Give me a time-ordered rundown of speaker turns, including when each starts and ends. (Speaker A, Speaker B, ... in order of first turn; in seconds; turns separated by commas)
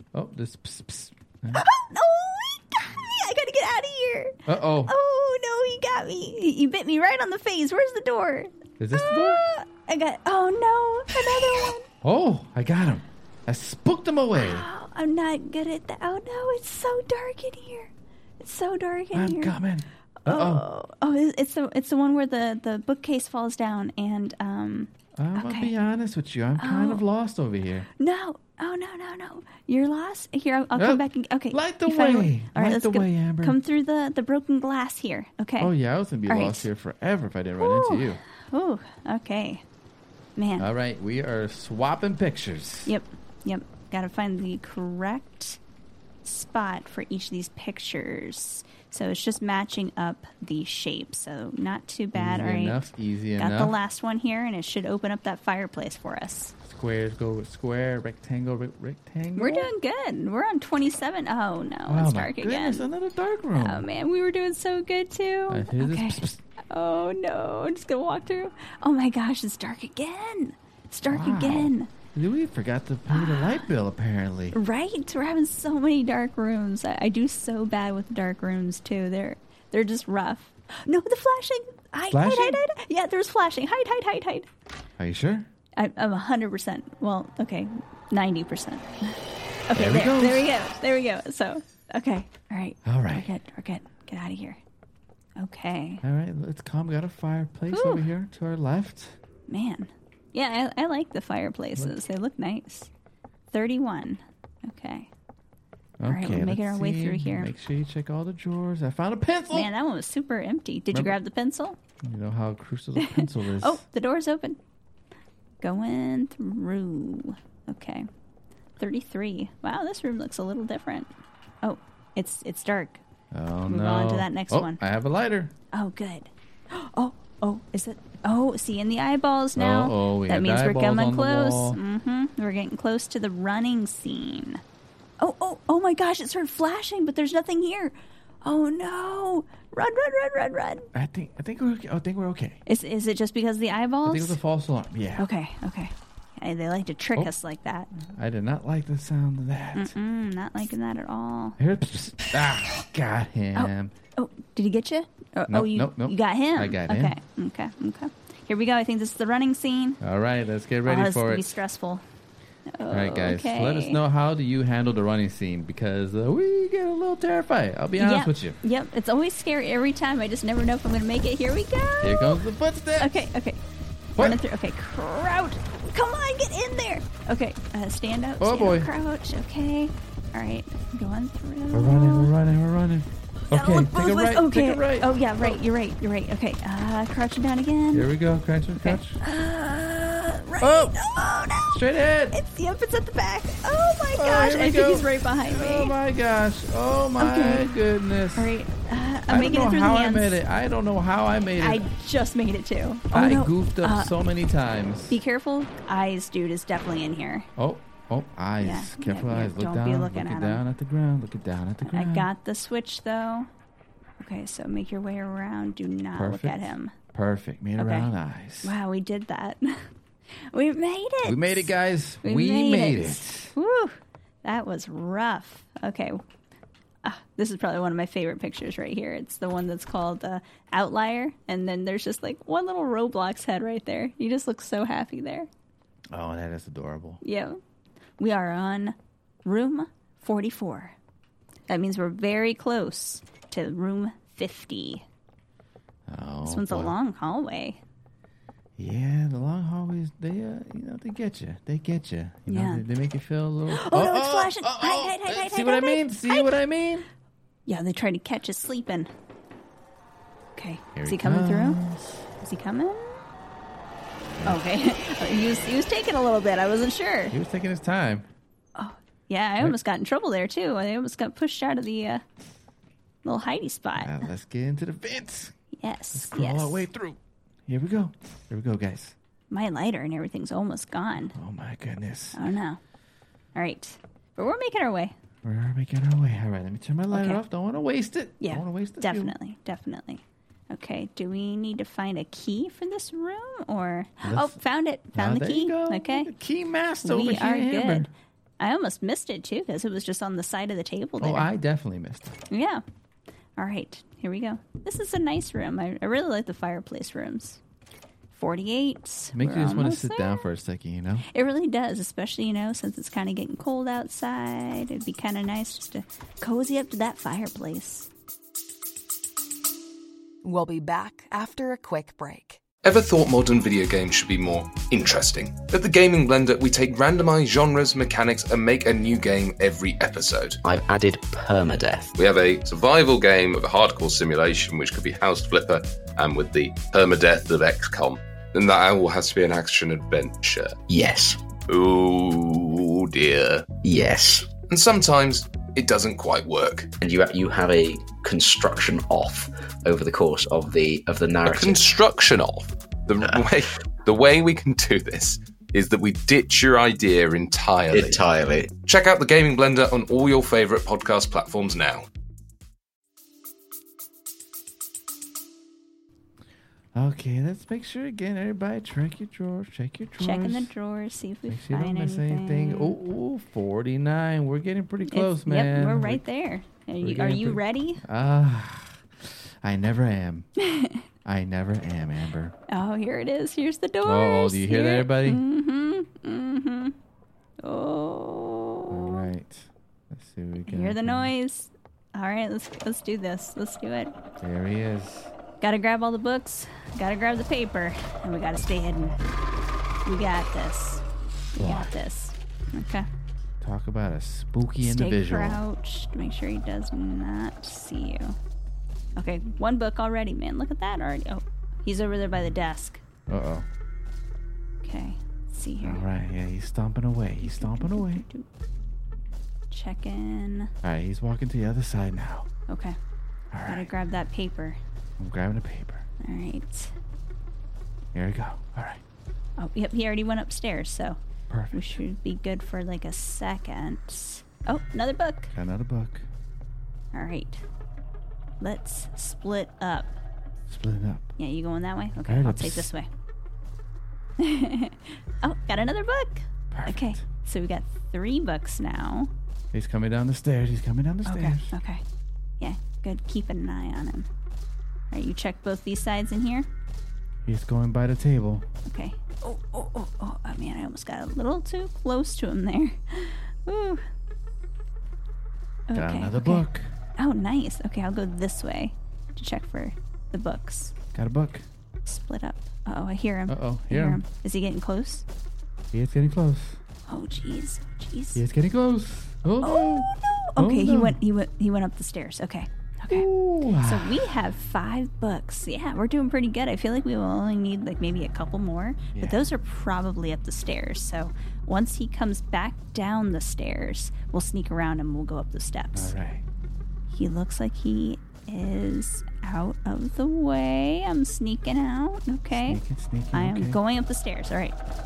Speaker A: 0.1-1.6, Speaker B: 1.5-11.9, Speaker A: 4.5-4.9, Speaker A: 8.8-9.4, Speaker A: 12.0-14.7, Speaker B: 14.3-19.6, Speaker A: 19.1-20.6, Speaker B: 20.2-25.7, Speaker A: 25.2-27.9, Speaker B: 26.6-27.0, Speaker B: 28.0-35.7, Speaker A: 30.8-33.6, Speaker A: 35.6-38.2, Speaker B: 36.3-36.7, Speaker B: 37.6-39.6, Speaker B: 40.4-40.7, Speaker A: 40.6-42.9, Speaker B: 42.9-45.6, Speaker B: 46.2-52.8, Speaker A: 52.1-53.8, Speaker B: 53.4-56.5, Speaker A: 56.6-59.7, Speaker B: 59.4-62.9, Speaker A: 61.9-63.9, Speaker B: 63.6-71.9, Speaker A: 65.5-66.4, Speaker A: 71.1-74.6, Speaker B: 73.1-73.7, Speaker B: 74.5-84.5, Speaker A: 82.1-82.6, Speaker A: 85.0-85.5, Speaker B: 85.8-94.6, Speaker A: 89.7-90.5, Speaker A: 92.8-93.3, Speaker B: 95.4-96.0, Speaker A: 96.0-99.2, Speaker B: 97.7-98.1, Speaker B: 99.5-102.9, Speaker B: 103.5-105.1, Speaker A: 106.0-109.7, Speaker B: 106.1-107.5, Speaker B: 109.5-111.8, Speaker A: 112.0-113.8, Speaker B: 113.0-114.6, Speaker B: 115.6-118.1, Speaker B: 118.8-123.0, Speaker A: 123.3-125.5, Speaker B: 123.7-124.8, Speaker B: 125.7-134.6, Speaker A: 129.6-131.8, Speaker B: 135.2-140.9, Speaker A: 140.9-142.6, Speaker B: 142.7-144.4, Speaker A: 144.1-145.3, Speaker B: 145.2-147.9, Speaker A: 147.9-149.9, Speaker B: 149.8-151.6, Speaker A: 151.6-153.9, Speaker B: 153.6-160.0, Speaker A: 155.5-157.2, Speaker A: 160.0-161.6, Speaker B: 160.8-162.0, Speaker B: 162.7-164.0, Speaker A: 162.9-168.6, Speaker B: 168.0-172.4, Speaker A: 172.0-173.2, Speaker B: 173.0-173.6, Speaker B: 174.2-182.3, Speaker A: 178.4-178.9, Speaker A: 181.7-185.6, Speaker B: 183.5-188.1, Speaker A: 187.9-189.2, Speaker B: 188.8-191.8, Speaker A: 190.6-191.0, Speaker A: 191.7-192.4, Speaker B: 192.3-196.0, Speaker A: 194.2-198.5, Speaker B: 197.2-197.7, Speaker B: 198.4-200.4, Speaker A: 199.3-201.9, Speaker B: 201.6-204.1, Speaker A: 203.1-205.2, Speaker B: 205.1-207.5, Speaker A: 207.6-212.3, Speaker B: 208.6-210.6, Speaker B: 211.8-213.5, Speaker B: 214.2-216.9, Speaker A: 216.2-218.7, Speaker B: 217.8-218.1, Speaker B: 218.6-219.9, Speaker B: 220.5-221.7, Speaker A: 221.2-223.5, Speaker B: 222.2-226.2, Speaker B: 227.0-235.5, Speaker A: 236.1-237.2, Speaker B: 237.2-237.6, Speaker B: 238.2-240.9, Speaker B: 241.7-245.1, Speaker A: 246.1-246.9, Speaker B: 246.4-247.8, Speaker A: 248.8-257.1, Speaker B: 252.5-252.8, Speaker B: 253.7-256.5, Speaker B: 257.7-259.1, Speaker B: 260.6-261.8, Speaker A: 261.0-262.2, Speaker B: 262.4-263.2, Speaker B: 264.4-267.4, Speaker A: 267.3-268.3, Speaker B: 268.8-272.2, Speaker B: 273.2-274.3, Speaker A: 274.0-275.5, Speaker B: 275.7-276.9, Speaker A: 276.1-279.1, Speaker B: 279.5-281.4, Speaker A: 281.3-282.4, Speaker B: 282.3-282.8, Speaker B: 283.6-285.1, Speaker A: 285.4-289.4, Speaker B: 287.1-287.4, Speaker B: 288.4-296.3, Speaker A: 294.2-294.6, Speaker A: 295.1-298.1, Speaker B: 297.0-301.5, Speaker A: 301.2-302.4, Speaker B: 302.5-302.8, Speaker B: 303.6-307.6, Speaker B: 308.3-310.5, Speaker A: 309.3-311.3, Speaker B: 311.3-318.1, Speaker C: 320.4-322.6, Speaker D: 322.8-330.6, Speaker E: 330.6-332.1, Speaker D: 332.2-340.8, Speaker E: 340.9-341.4, Speaker D: 341.7-343.7, Speaker E: 343.8-344.5, Speaker D: 344.7-346.9, Speaker E: 347.0-351.9, Speaker D: 351.4-362.1, Speaker E: 357.9-358.7, Speaker A: 366.9-370.7, Speaker B: 370.2-373.0, Speaker A: 371.5-376.2, Speaker B: 375.1-378.0, Speaker A: 377.0-380.5, Speaker B: 380.6-381.0, Speaker A: 381.2-382.6, Speaker B: 382.7-387.0, Speaker A: 384.0-385.4, Speaker B: 387.6-389.3, Speaker A: 388.9-391.3, Speaker B: 390.7-394.1, Speaker A: 394.4-395.3, Speaker B: 395.6-399.2, Speaker B: 400.1-403.1, Speaker A: 401.6-401.9, Speaker A: 403.6-405.6, Speaker B: 404.8-408.4, Speaker B: 409.2-413.0, Speaker A: 413.3-413.7, Speaker B: 414.8-416.1, Speaker A: 415.8-418.2, Speaker B: 417.4-418.5, Speaker B: 419.7-420.7, Speaker A: 420.8-422.5, Speaker B: 422.7-423.0, Speaker A: 423.5-423.9, Speaker B: 423.7-424.8, Speaker A: 425.2-426.1, Speaker B: 426.2-426.9, Speaker A: 428.1-429.0, Speaker B: 429.6-431.2, Speaker A: 431.5-432.0, Speaker B: 431.7-435.5, Speaker A: 435.5-436.3, Speaker B: 437.1-437.6, Speaker B: 438.6-440.1, Speaker A: 440.7-441.4, Speaker B: 441.4-443.1, Speaker A: 442.3-442.9, Speaker B: 444.4-449.3, Speaker A: 446.7-447.2, Speaker A: 449.7-451.8, Speaker B: 451.2-452.0, Speaker B: 452.6-454.3, Speaker B: 455.1-456.7, Speaker A: 457.5-458.7, Speaker B: 458.9-464.0, Speaker B: 465.9-470.9, Speaker A: 465.9-466.9, Speaker A: 471.1-471.7, Speaker B: 472.1-475.3, Speaker A: 473.5-474.2, Speaker A: 475.9-476.8, Speaker B: 477.1-478.4, Speaker A: 478.4-481.2, Speaker B: 479.6-496.1, Speaker A: 483.1-484.2, Speaker A: 489.1-489.4, Speaker A: 495.9-496.4, Speaker B: 497.1-502.8, Speaker A: 502.5-503.8, Speaker B: 503.3-504.8